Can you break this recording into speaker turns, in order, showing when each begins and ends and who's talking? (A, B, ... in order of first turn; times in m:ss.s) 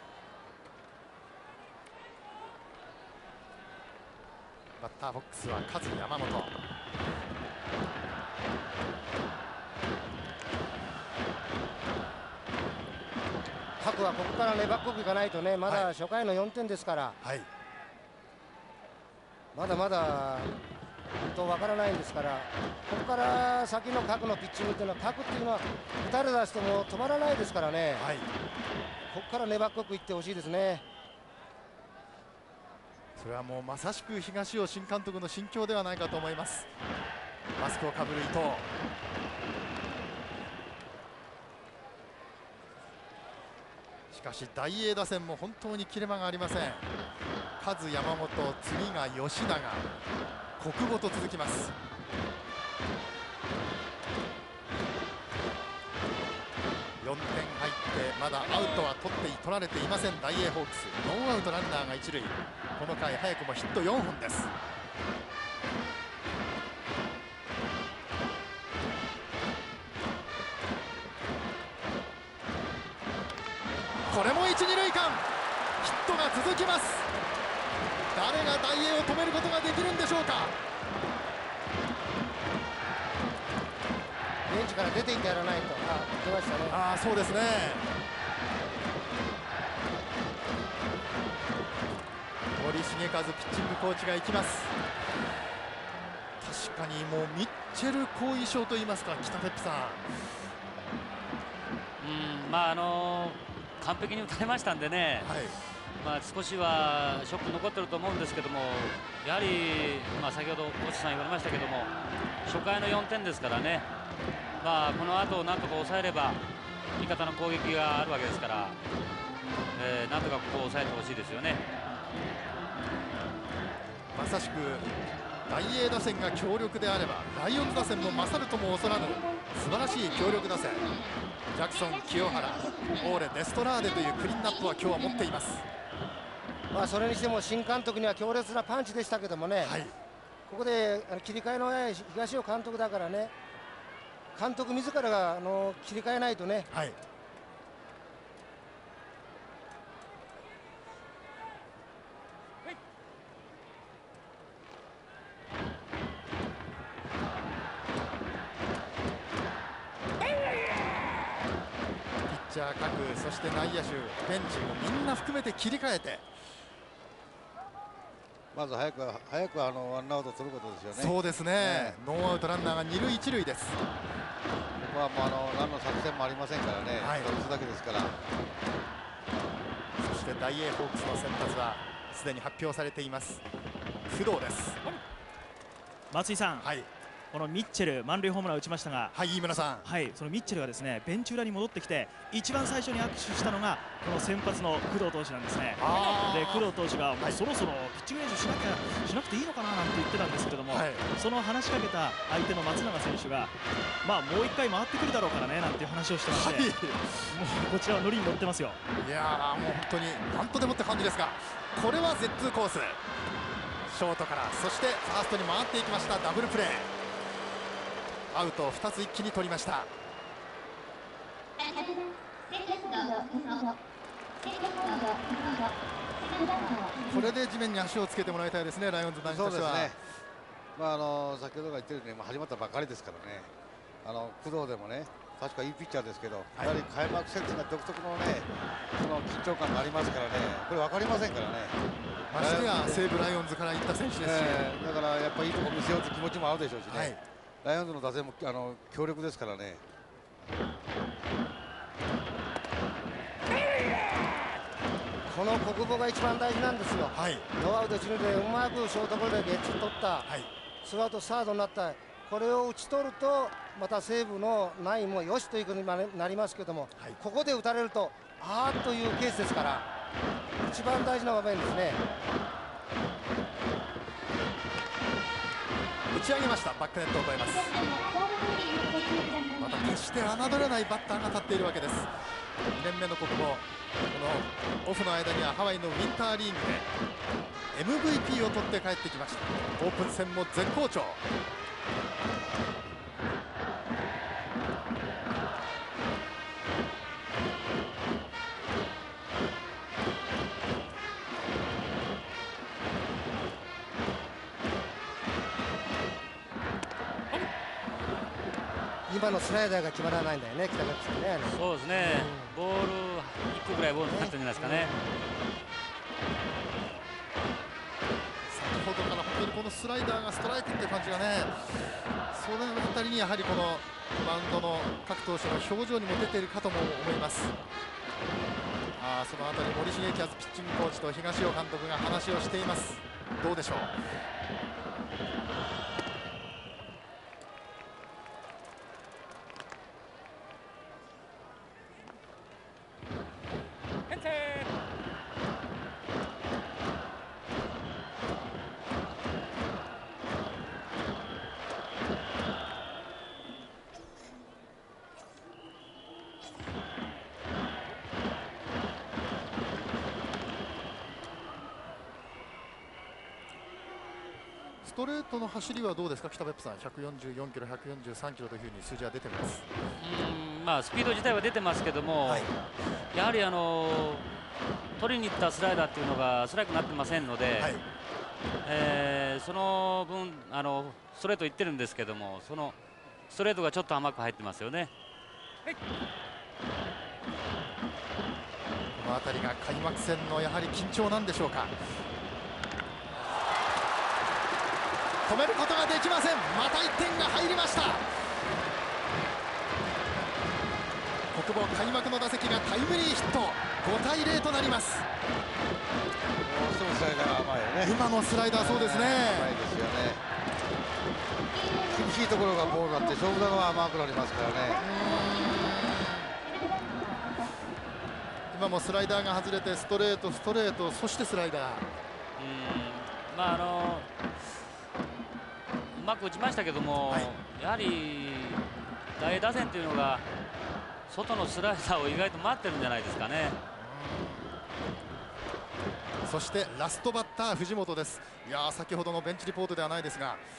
0:04.8-0:06.5 A
0:13.8-0:17.2 B
0:17.2-0:17.5 A
0:19.5-0:20.5 B
0:21.2-0:28.1 B
0:28.0-0:28.3 A
0:29.1-0:30.8 B
0:33.2-0:36.7 A
0:37.6-0:38.7 A
0:44.1-0:46.8 A
0:47.6-0:49.8 A
0:50.6-0:51.7 A
0:57.0-1:04.5 A
1:14.1-1:15.2 A
1:15.8-1:17.1 A
1:18.1-1:20.5 A
1:24.5-1:26.8 B
1:26.7-1:27.8 A
1:32.6-1:34.7 A
1:36.4-1:40.1 A
1:42.0-1:45.3 C
1:45.2-1:45.5 A
1:46.0-1:51.9 C
1:52.4-1:53.9 C
1:54.6-1:56.4 C
1:57.0-1:58.8 C
1:59.7-2:01.6 C
2:04.1-2:04.9 A
2:05.5-2:10.9 A
2:11.5-2:15.6 A
2:16.7-2:19.8 B
2:19.6-2:19.9 A
2:20.5-2:23.3 B
2:24.3-2:26.7 B
2:26.7-2:27.0 A
2:42.3-2:46.2 A
2:48.5-2:52.0 D
2:50.9-2:53.8 A
2:54.8-2:58.1 D
2:57.0-2:57.3 A
3:00.0-3:03.4 A
3:04.1-3:04.8 A
3:06.1-3:06.7 E
3:06.6-3:06.9 A
3:07.3-3:09.1 E
3:09.1-3:09.9 A
3:09.8-3:23.5 E
3:15.8-3:17.4 A
3:20.7-3:21.1 A
3:24.0-3:26.8 E
3:26.3-3:27.3 A
3:27.3-3:28.8 E
3:29.0-3:33.0 A
3:33.9-3:36.9 A
3:38.3-3:39.9 A
3:47.0-3:50.0 A
3:49.2-3:50.0 D
3:50.7-3:53.5 D
3:54.0-4:01.8 D
4:02.3-4:04.6 A
4:02.3-4:03.0 D
4:04.2-4:09.8 D
4:06.9-4:07.2 A
4:15.3-4:20.3 B
4:17.1-4:17.4 A
4:20.8-4:29.9 B
4:30.6-4:32.0 B
4:36.1-4:37.7 A
4:39.6-4:42.1 A
4:42.7-4:46.9 A
4:47.7-4:51.2 A
5:09.1-5:12.5 B
5:11.5-5:14.9 C
5:14.1-5:15.0 B
5:18.5-5:21.6 A
5:22.3-5:27.5 A
5:29.0-5:33.9 A
6:04.8-6:09.6 A
6:10.0-6:12.5 C
6:12.2-6:12.5 A
6:13.1-6:14.3 C
6:15.0-6:17.8 C
6:17.6-6:17.8 A
6:18.6-6:22.8 C
6:23.3-6:24.9 C
6:29.0-6:31.7 A
6:35.2-6:38.0 A
6:41.3-6:45.0 A
6:46.4-6:50.2 D
6:47.8-6:49.5 A
6:51.8-6:54.8 D
6:54.8-6:56.3 A
6:58.5-7:01.9 A
7:02.4-7:04.1 C
7:05.9-7:10.2 C
7:11.1-7:13.6 C
7:13.8-7:14.4 A
7:16.2-7:20.4 A